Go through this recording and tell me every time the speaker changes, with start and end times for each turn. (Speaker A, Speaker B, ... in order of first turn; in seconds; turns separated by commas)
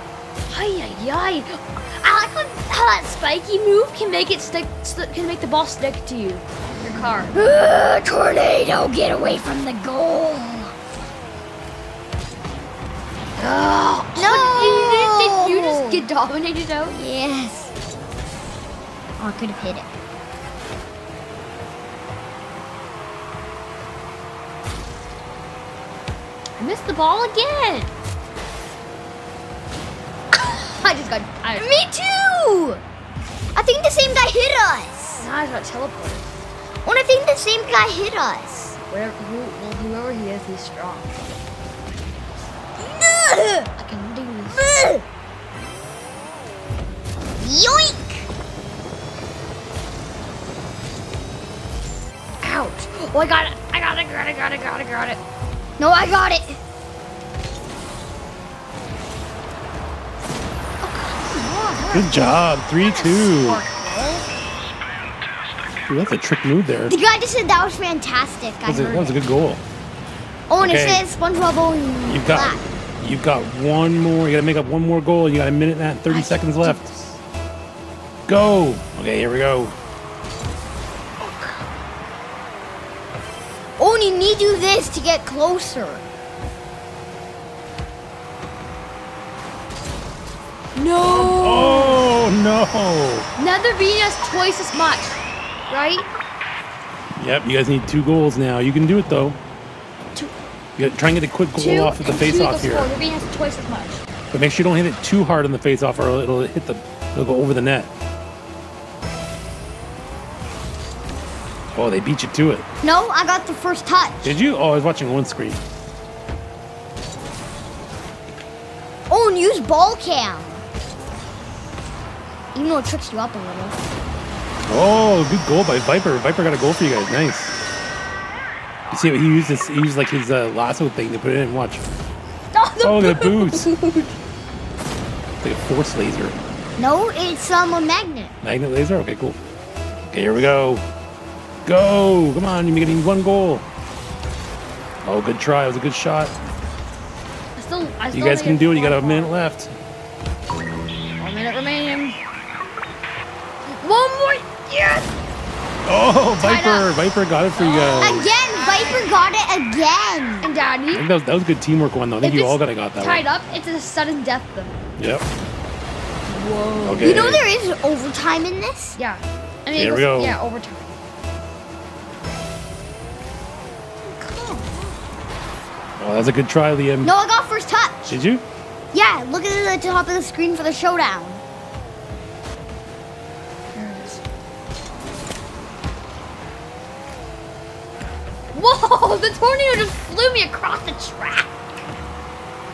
Speaker A: 0.5-7.3, Speaker B: 7.3-10.7, Speaker A: 13.4-17.0, Speaker B: 14.2-16.0, Speaker B: 16.9-17.7, Speaker B: 19.2-19.9, Speaker A: 26.6-27.9, Speaker A: 30.4-31.7, Speaker B: 31.6-32.8, Speaker B: 33.5-35.2, Speaker A: 35.1-36.2, Speaker B: 36.8-38.8, Speaker A: 38.9-41.2, Speaker B: 42.8-43.7, Speaker A: 43.8-44.6, Speaker B: 44.5-45.0, Speaker B: 47.4-48.3, Speaker A: 52.4-55.2, Speaker B: 55.8-56.6, Speaker A: 60.8-64.2, Speaker C: 61.9-63.6, Speaker C: 65.9-67.0, Speaker B: 66.9-69.2, Speaker C: 68.7-69.6, Speaker B: 70.5-72.7, Speaker C: 70.6-71.0, Speaker C: 72.1-76.8, Speaker A: 76.1-77.2, Speaker C: 78.3-79.8, Speaker A: 81.2-81.7, Speaker B: 83.8-86.1, Speaker A: 90.8-92.0, Speaker C: 91.0-93.3, Speaker A: 93.4-96.1, Speaker C: 97.2-99.4, Speaker C: 100.8-102.9, Speaker A: 101.6-104.0, Speaker C: 104.3-107.9, Speaker C: 111.7-112.7, Speaker B: 112.8-114.4, Speaker C: 114.2-115.6, Speaker B: 119.1-120.6, Speaker B: 122.5-123.8, Speaker C: 124.7-127.5, Speaker C: 128.9-131.8, Speaker A: 132.5-134.1, Speaker C: 132.8-133.7, Speaker C: 135.4-136.4, Speaker B: 136.8-138.3, Speaker C: 138.4-139.4, Speaker C: 140.1-140.9, Speaker C: 141.7-143.7, Speaker C: 145.0-146.3, Speaker A: 147.6-149.3, Speaker C: 148.1-149.7, Speaker A: 151.2-152.2, Speaker A: 153.7-155.1, Speaker C: 155.8-158.3, Speaker A: 156.4-156.9, Speaker A: 157.6-159.1, Speaker B: 158.0-160.6, Speaker A: 160.4-161.1, Speaker C: 160.9-163.2, Speaker A: 162.2-164.8, Speaker C: 165.0-165.2, Speaker A: 166.3-167.2, Speaker C: 166.8-167.4, Speaker B: 167.0-169.0, Speaker A: 169.0-171.0, Speaker C: 169.7-170.4, Speaker B: 174.2-174.8, Speaker C: 176.0-177.1, Speaker B: 177.0-178.2, Speaker C: 178.1-178.4, Speaker B: 178.9-181.4, Speaker A: 183.7-184.2, Speaker A: 188.5-191.5